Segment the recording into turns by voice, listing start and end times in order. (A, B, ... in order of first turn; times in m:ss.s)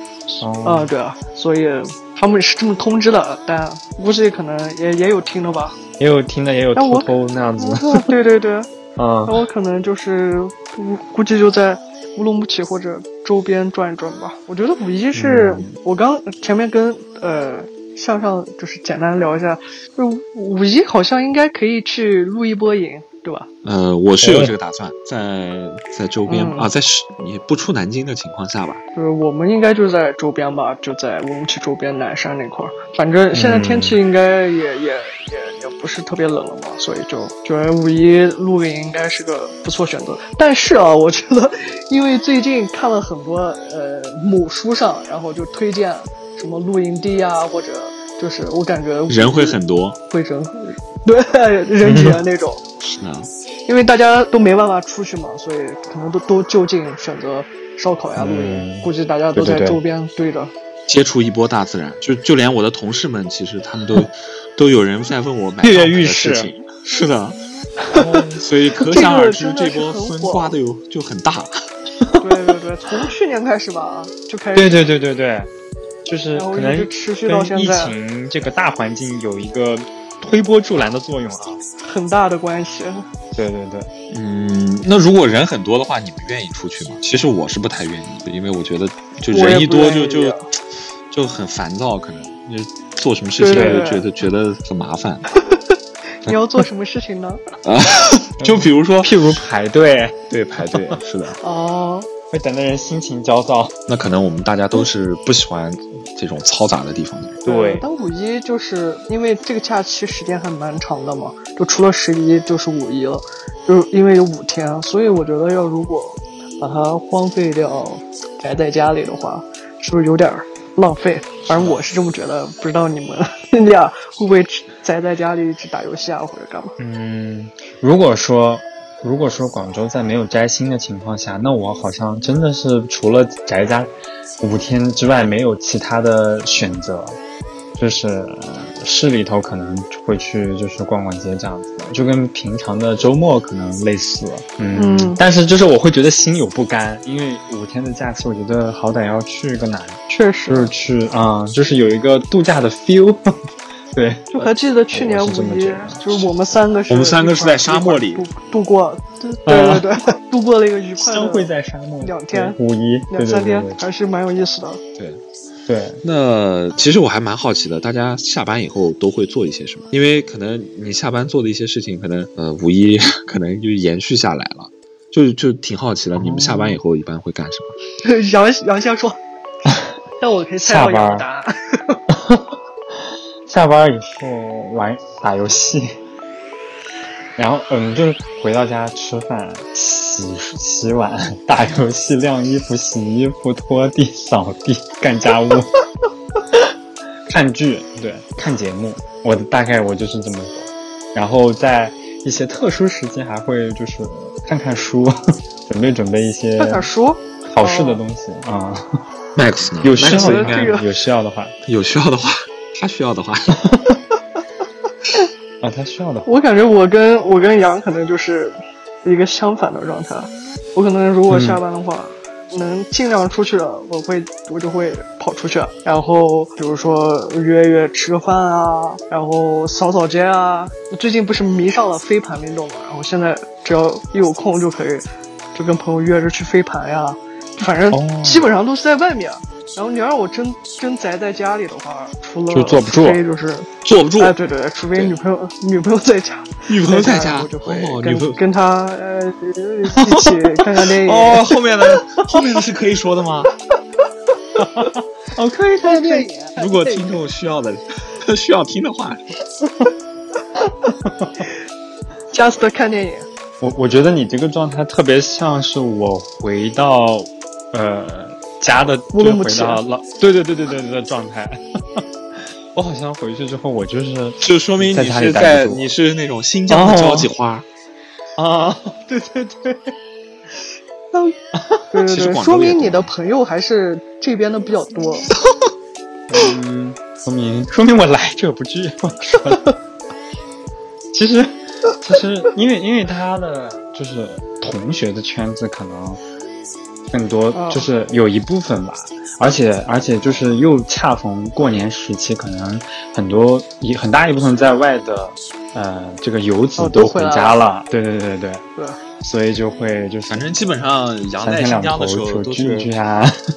0:00.3-0:05.8 A
0:00.4-0:00.9 B
0:06.0-0:08.1 B
0:06.7-0:08.7 A
0:09.0-0:09.5 B
0:09.2-0:23.5 A
0:15.1-0:15.7 B
0:23.6-0:28.8 C
0:24.2-0:24.5 B
0:26.3-0:26.7 A
0:28.9-0:52.6 A
0:33.3-0:34.0 B
0:49.1-0:50.0 C
0:51.8-0:52.2 B
0:52.8-0:53.3 C
0:53.7-1:00.5 A
0:58.2-0:59.8 B
1:00.9-1:07.4 C
1:05.6-1:06.5 B
1:07.9-1:08.4 B
1:08.4-1:11.5 C
1:08.8-1:10.6 A
1:12.0-1:12.4 B
1:12.2-1:14.8 A
1:14.5-1:15.5 B
1:16.0-1:21.6 B
1:16.3-1:17.9 A
1:21.8-1:23.0 A
1:23.4-1:23.9 B
1:24.1-1:30.4 C
1:29.3-1:30.4 A
1:31.1-1:35.2 C
1:33.4-1:34.0 A
1:33.5-1:33.8 B
1:36.2-1:37.4 A
1:37.6-1:39.4 C
1:38.4-1:40.2 B
1:40.3-1:41.4 C
1:40.7-1:41.0 B
1:41.4-1:42.1 A
1:42.3-1:43.7 B
1:43.9-1:47.4 C
1:47.4-1:47.9 B
1:47.4-2:06.8 A
2:06.8-2:17.2 B
2:17.8-2:33.3 B
2:24.7-2:25.2 A
2:30.1-2:30.7 A
2:33.9-2:36.0 B
2:34.3-2:42.6 A
2:36.9-2:38.3 C
2:39.5-2:39.9 B
2:41.0-2:43.8 B
2:43.1-2:44.8 A
2:45.7-2:46.0 B
2:46.0-2:57.8 C
2:56.1-2:56.8 B
2:58.0-2:59.2 A
3:00.2-3:02.0 A
3:00.6-3:01.2 B
3:02.1-3:02.4 B
3:03.5-3:06.0 B
3:07.4-3:15.7 B
3:17.3-3:26.9 B
3:26.6-3:28.0 A
3:27.5-3:29.0 B
3:29.4-3:30.8 C
3:29.8-3:31.5 B
3:30.0-3:30.8 A
3:31.6-3:33.6 C
3:33.7-3:33.9 B
3:35.6-3:36.3 B
3:36.2-4:11.6 A
3:41.3-3:41.6 B
3:57.9-3:58.4 B
4:02.5-4:03.2 B
4:03.8-4:04.4 C
4:06.7-4:08.4 C
4:10.0-4:13.5 C
4:14.6-4:14.9 A
4:14.6-4:16.3 B
4:15.7-4:17.2 A
4:16.6-4:19.2 C
4:21.0-4:21.4 B
4:22.3-4:23.3 A
4:23.6-4:35.9 B
4:29.1-4:29.8 A
4:34.4-4:37.6 C
4:36.7-4:37.3 B
4:38.4-4:39.9 B
4:41.5-4:41.8 B
4:41.9-4:45.3 A
4:42.0-4:43.1 C
4:46.3-4:49.6 B
4:49.3-4:49.7 A
4:51.1-4:56.2 B
4:57.1-5:08.6 B
4:57.5-4:57.9 A
5:06.8-5:07.6 A
5:09.2-5:10.5 B
5:10.3-5:12.9 C
5:11.4-5:13.4 B